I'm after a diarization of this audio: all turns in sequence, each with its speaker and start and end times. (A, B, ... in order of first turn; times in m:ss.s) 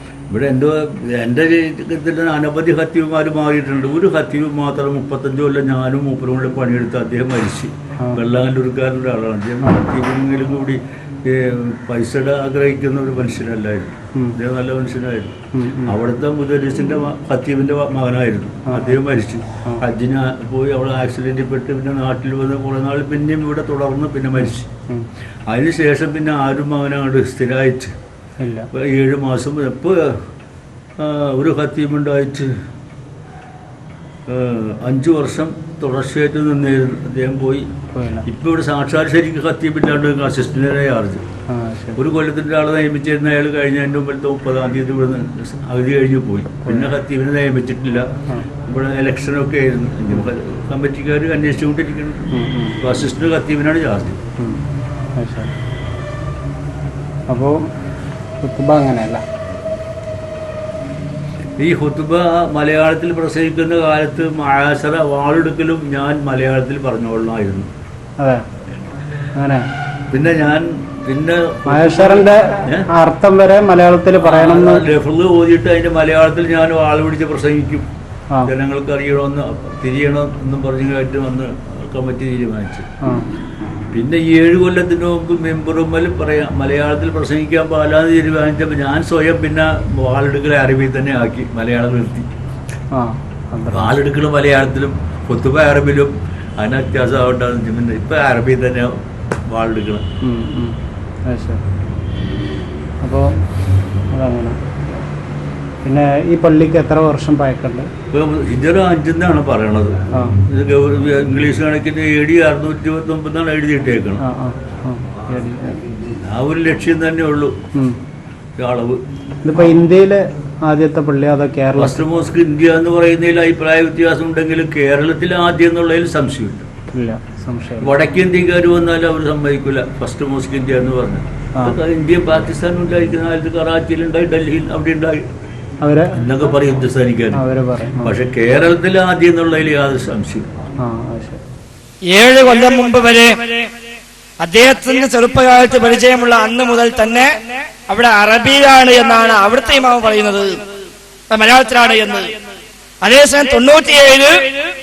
0:00.3-0:15.3 A
0:15.5-0:15.9 B
0:15.8-0:24.7 A
0:18.7-0:19.0 B
0:24.4-0:25.0 B
0:25.5-0:27.9 A
0:28.4-0:28.7 B
0:28.7-0:30.1 A
0:31.0-0:32.5 A
0:34.3-0:37.7 A
0:37.9-0:38.2 B
0:38.2-0:41.2 A
0:41.5-0:42.0 B
0:42.0-0:48.1 A
0:48.6-0:54.2 A
0:52.3-0:52.8 B
0:55.2-0:55.5 B
0:57.3-0:57.5 B
0:58.4-0:59.2 B
1:01.6-1:07.7 A
1:09.4-1:09.6 B
1:10.1-1:12.9 A
1:11.7-1:14.9 B
1:14.2-1:17.8 A
1:18.4-1:22.9 A
1:23.9-1:32.3 A
1:32.9-1:34.0 B
1:33.7-1:38.9 A
1:39.5-1:40.0 A
1:40.2-1:40.8 B
1:41.3-1:41.6 B
1:43.0-1:43.3 B
1:44.1-1:44.6 B
1:45.8-1:47.9 B
1:48.1-1:54.2 A
1:50.1-1:50.4 B
1:54.2-1:55.8 B
1:56.1-1:57.5 A
1:58.6-1:59.0 A
1:59.4-2:02.0 B
2:01.8-2:06.7 A
2:06.9-2:08.0 B
2:07.8-2:15.2 A
2:15.8-2:16.2 B
2:16.1-2:17.4 A
2:17.3-2:18.2 B
2:18.0-2:20.5 A
2:20.8-2:21.4 B
2:22.1-2:23.3 C
2:24.4-2:27.3 C
2:27.9-2:30.6 C
2:31.3-2:32.2 C
2:33.0-2:34.3 C